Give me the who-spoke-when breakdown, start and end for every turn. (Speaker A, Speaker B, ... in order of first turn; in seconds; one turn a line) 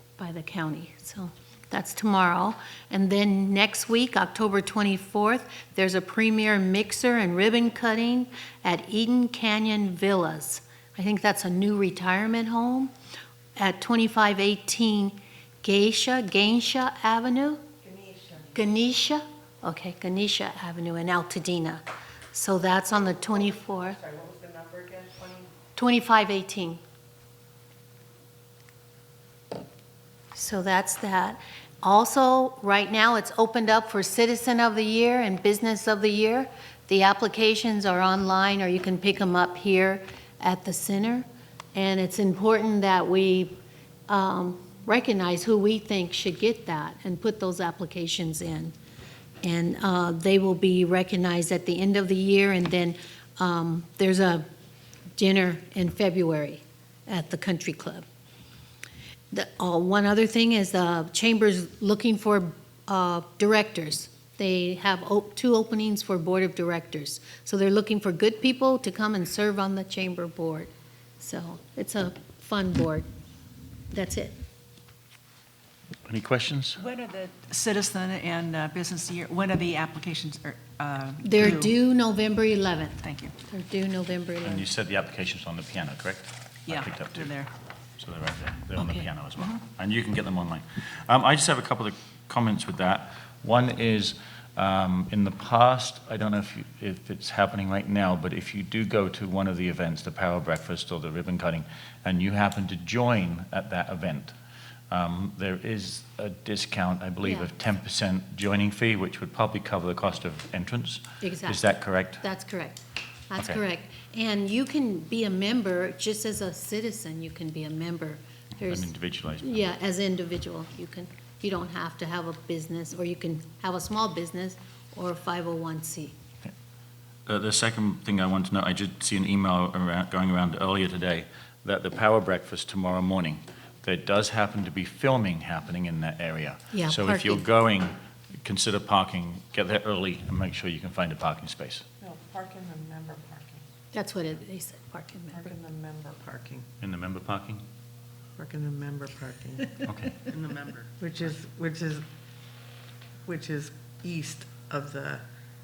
Speaker A: 0.2-12.9
Speaker A: 13.6-17.6
Speaker B: 17.8-18.6
Speaker A: 18.5-24.0
Speaker B: 23.6-25.5
Speaker A: 25.8-26.8
Speaker A: 30.3-43.6
Speaker A: 44.1-48.7
Speaker A: 49.4-54.5
Speaker A: 55.2-58.0
Speaker A: 59.3-73.1
Speaker A: 73.9-74.4
Speaker C: 76.1-76.8
Speaker D: 76.8-81.8
Speaker A: 81.2-84.7
Speaker D: 83.0-83.3
Speaker C: 84.4-87.3
Speaker D: 86.7-87.5
Speaker C: 88.0-104.3
Speaker C: 104.9-112.2
Speaker A: 107.2-107.5
Speaker A: 111.2-111.6
Speaker A: 112.2-126.2
Speaker C: 118.7-119.6
Speaker C: 127.3-141.8
Speaker A: 136.7-137.4
Speaker B: 142.0-143.6
Speaker A: 143.9-145.5
Speaker B: 145.3-146.7
Speaker C: 146.8-147.6
Speaker B: 148.4-149.8
Speaker C: 149.8-150.5
Speaker B: 150.8-152.1
Speaker B: 153.2-155.2